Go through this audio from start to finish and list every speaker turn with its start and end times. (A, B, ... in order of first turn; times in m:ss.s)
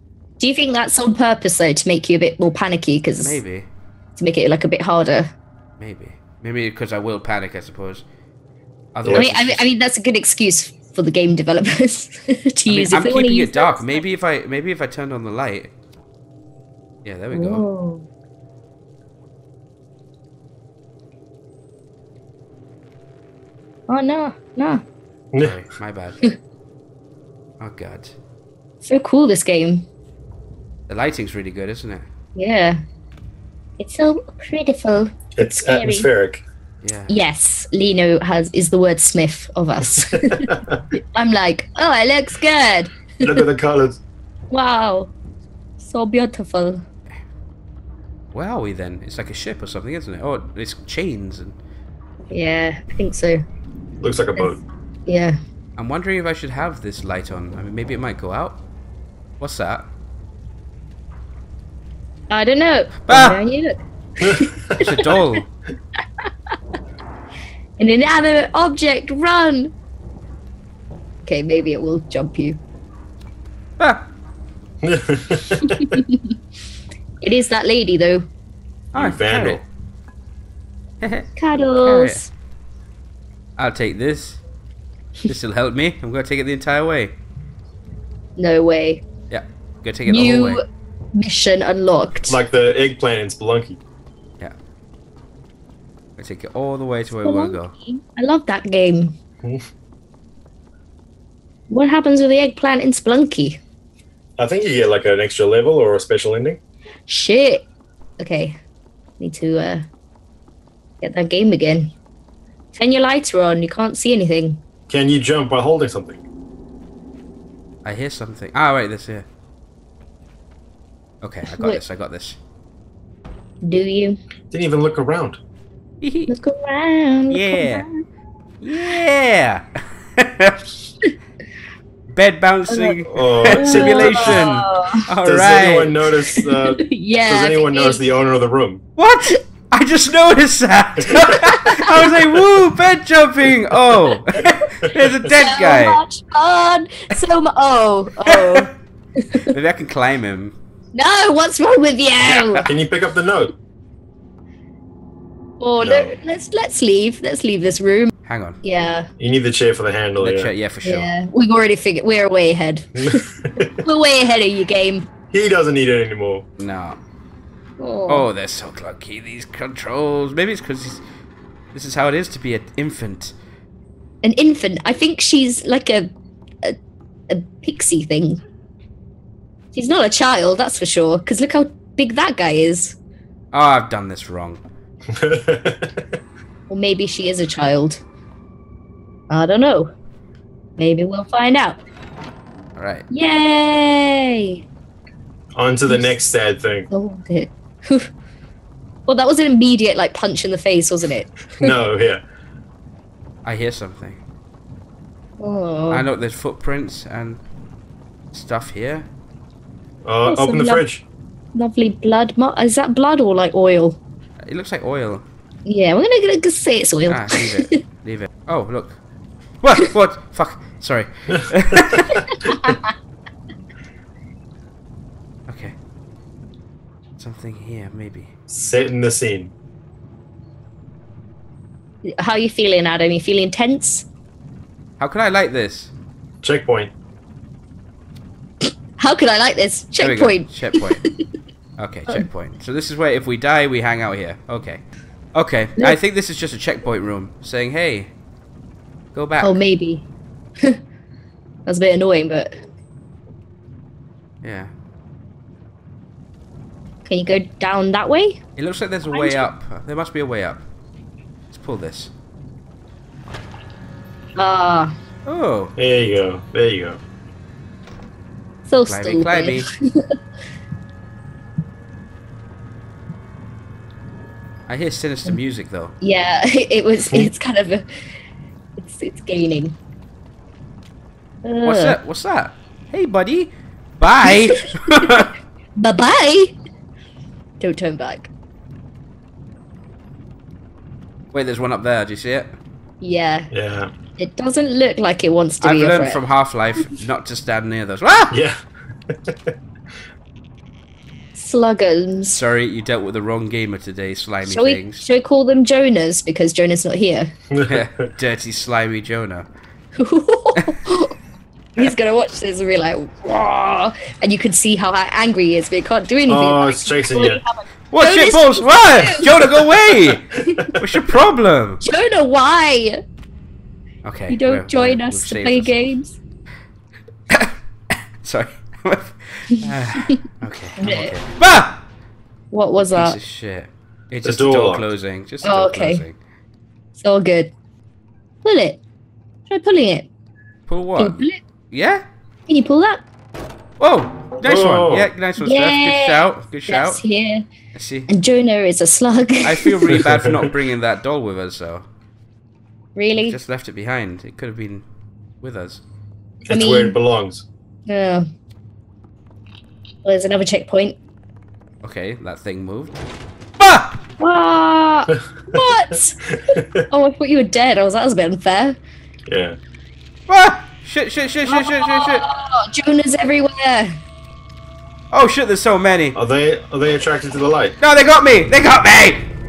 0:00.4-0:03.4 A
0:03.2-0:03.7 B
0:04.2-0:05.3 A
0:05.8-0:08.0 B
0:08.9-0:09.6 B
0:09.0-0:09.3 C
0:09.1-0:14.0 A
0:12.7-0:15.7 B
0:17.0-0:17.6 B
0:17.3-0:18.0 A
0:23.9-0:24.8 A
0:25.4-0:26.2 B
0:27.6-0:28.1 B
0:28.8-0:29.9 A
0:30.9-0:32.0 B
0:32.4-0:32.8 A
0:33.8-0:36.1 A
0:35.4-0:36.4 C
0:36.8-0:37.1 B
0:37.1-0:40.5 A
0:40.1-0:40.8 C
0:41.1-0:43.2 A
0:43.2-0:44.0 C
0:44.5-0:45.1 A
0:45.8-0:46.8 A
0:48.3-0:51.6 B
0:52.3-0:53.4 A
0:54.0-0:54.6 C
0:54.4-0:55.4 A
0:55.8-0:58.6 B
0:59.4-0:59.9 B
1:02.3-1:05.1 A
1:03.0-1:03.4 B
1:04.2-1:04.8 C
1:04.8-1:05.5 B
1:07.8-1:09.7 A
1:11.2-1:12.6 A
1:13.8-1:14.0 B
1:14.8-1:15.8 C
1:15.6-1:16.2 A
1:17.2-1:18.3 A
1:18.9-1:19.6 B
1:18.9-1:19.6 C
1:21.0-1:21.3 B
1:21.4-1:22.3 A
1:21.8-1:22.2 B
1:23.6-1:24.4 B
1:25.3-1:27.1 B
1:28.4-1:29.0 A
1:29.3-1:30.6 B
1:30.0-1:30.6 A
1:31.1-1:32.4 A
1:32.3-1:33.8 C
1:36.2-1:37.7 B
1:37.2-1:39.2 A
1:41.7-1:43.6 A
1:44.4-1:46.6 C
1:47.1-1:47.6 A
1:48.2-1:48.6 A
1:49.2-1:49.9 A
1:51.0-1:51.9 A
1:52.7-1:54.6 A
1:54.9-1:56.2 C
1:57.8-1:59.2 B
2:01.2-2:02.4 B
2:01.4-2:01.8 A
2:03.6-2:04.2 A
2:04.5-2:05.4 C
2:06.0-2:06.3 B
2:06.3-2:08.0 A
2:07.3-2:07.9 B
2:08.6-2:09.6 B
2:10.2-2:10.6 B
2:12.1-2:16.0 B
2:12.7-2:13.0 A
2:13.1-2:14.4 C
2:13.5-2:15.0 A
2:15.2-2:18.8 C
2:16.4-2:18.0 A
2:19.0-2:26.0 B
2:25.3-2:29.5 A
2:28.3-2:28.7 B
2:29.4-2:30.6 B
2:30.9-2:32.7 A
2:32.2-2:32.7 B
2:32.6-2:33.5 C
2:35.6-2:38.1 A
2:35.8-2:36.1 C
2:38.2-2:38.6 B
2:38.6-2:39.1 A
2:39.2-2:40.5 C
2:40.2-2:41.1 B
2:40.8-2:43.2 A
2:43.0-2:43.7 C
2:43.8-2:45.1 A
2:45.3-2:46.4 C
2:46.6-2:47.0 B
2:47.8-2:48.2 A
2:48.1-2:51.0 B
2:51.7-2:53.3 B
2:54.2-2:56.1 A
2:57.3-2:58.4 A
2:59.7-3:03.0 A
3:03.5-3:04.6 B
3:05.1-3:06.0 C
3:06.7-3:08.0 A
3:09.3-3:09.9 A
3:10.8-3:11.8 A
3:12.8-3:13.0 B
3:13.1-3:14.6 A
3:15.6-3:16.9 C
3:15.9-3:16.1 A
3:16.9-3:18.1 A
3:19.0-3:21.7 A
3:21.6-3:22.2 C
3:23.4-3:24.2 B
3:25.4-3:26.0 A
3:25.9-3:27.4 B
3:28.3-3:29.1 B
3:30.0-3:31.0 C
3:30.2-3:30.8 A
3:31.5-3:34.0 A
3:34.4-3:35.2 B
3:35.6-3:37.8 A
3:37.1-3:39.0 B
3:39.6-3:42.2 B
3:41.3-3:42.1 C
3:42.1-3:42.9 A
3:45.5-3:45.7 B
3:47.2-3:48.3 B
3:48.5-3:49.5 C
3:52.0-3:54.1 A
3:55.0-3:55.9 B
3:56.4-3:56.9 C
3:59.0-4:01.1 A
4:00.0-4:01.0 B
4:01.8-4:04.8 B
4:05.3-4:08.1 B
4:09.1-4:09.6 B
4:09.4-4:10.1 A
4:11.6-4:12.6 A
4:14.4-4:14.7 B
4:17.0-4:18.4 A
4:18.6-4:20.6 B
4:19.1-4:19.5 A
4:21.5-4:22.1 B
4:24.4-4:24.9 A
4:25.2-4:25.7 B
4:25.8-4:27.0 C
4:28.6-4:30.1 A
4:28.8-4:29.7 B
4:34.7-4:35.9 B
4:36.0-4:37.9 A
4:38.8-4:39.8 A
4:41.4-4:42.0 A
4:41.6-4:45.3 B
4:44.2-4:44.5 A
4:45.8-4:46.5 A
4:47.6-4:48.3 A
4:51.3-4:52.5 B
4:53.0-4:53.5 A
4:53.5-4:53.9 C
4:54.2-4:56.2 A
4:55.6-4:58.4 B
4:58.3-4:59.5 C
5:01.3-5:02.4 A
5:02.3-5:05.0 B
5:04.4-5:07.3 A
5:07.5-5:07.9 C
5:07.7-5:09.5 B
5:10.0-5:11.1 A
5:11.7-5:19.6 A
5:16.3-5:17.4 C
5:17.9-5:21.8 B
5:21.8-5:23.0 A
5:24.0-5:25.9 B
5:24.3-5:26.2 A
5:27.3-5:27.5 B
5:28.2-5:31.8 B
5:30.8-5:31.2 A
5:32.5-5:33.2 A
5:32.8-5:36.2 B
5:34.2-5:34.9 C
5:35.4-5:36.0 A
5:36.9-5:37.5 A
5:38.4-5:38.8 A
5:39.5-5:40.1 A
5:40.7-5:42.0 B
5:41.0-5:41.4 A
5:42.5-5:43.0 A
5:43.8-5:47.0 B
5:44.4-5:45.1 C
5:45.4-5:47.5 A
5:47.7-5:48.1 B
5:48.1-5:49.9 A
5:49.4-5:51.8 B
5:53.0-5:53.4 A
5:53.2-5:54.8 B
5:55.4-5:55.8 B
5:56.4-5:57.0 A
5:56.5-5:57.4 C
5:57.9-5:58.2 A
6:00.0-6:01.0 A
6:01.8-6:03.0 B
6:03.6-6:04.0 B
6:04.2-6:06.2 A
6:05.2-6:05.6 C
6:06.5-6:06.8 C
6:06.9-6:08.8 A
6:09.3-6:09.6 C
6:10.3-6:12.2 B
6:11.4-6:14.0 A
6:15.1-6:16.2 B
6:16.1-6:17.8 C
6:17.8-6:19.2 B